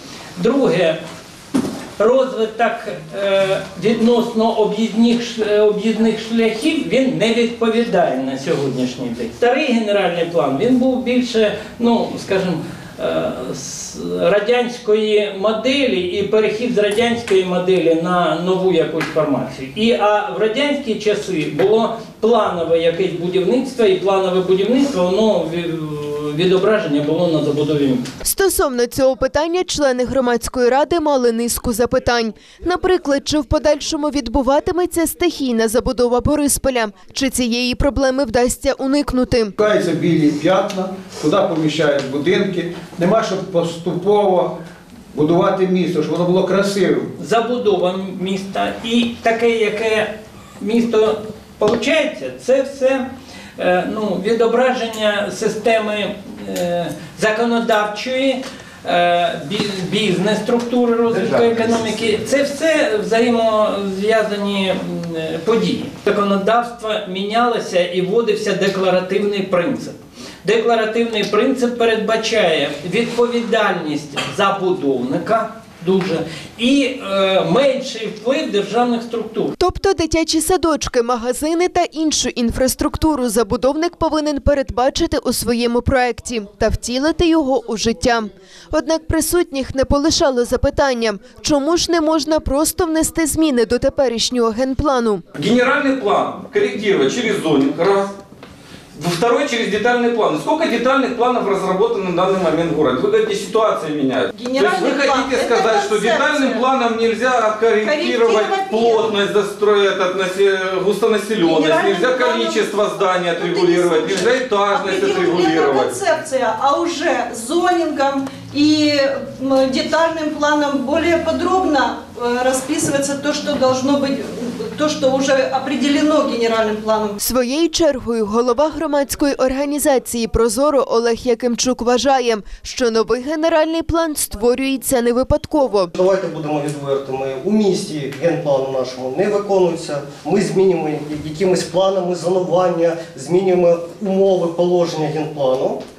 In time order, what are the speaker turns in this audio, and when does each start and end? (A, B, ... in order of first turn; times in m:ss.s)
0:00.4-0:01.0 A
0:02.0-0:28.0 A
0:28.2-0:39.5 B
0:39.6-0:44.6 C
0:45.1-0:47.1 C
0:47.2-1:19.5 A
1:19.6-1:35.2 B
1:35.3-1:38.1 D
1:38.9-1:55.9 D
1:44.3-1:46.6 E
1:47.8-1:49.1 E
1:51.5-1:52.6 E
1:53.2-2:07.2 E
2:07.2-2:15.9 B
2:15.9-2:25.8 F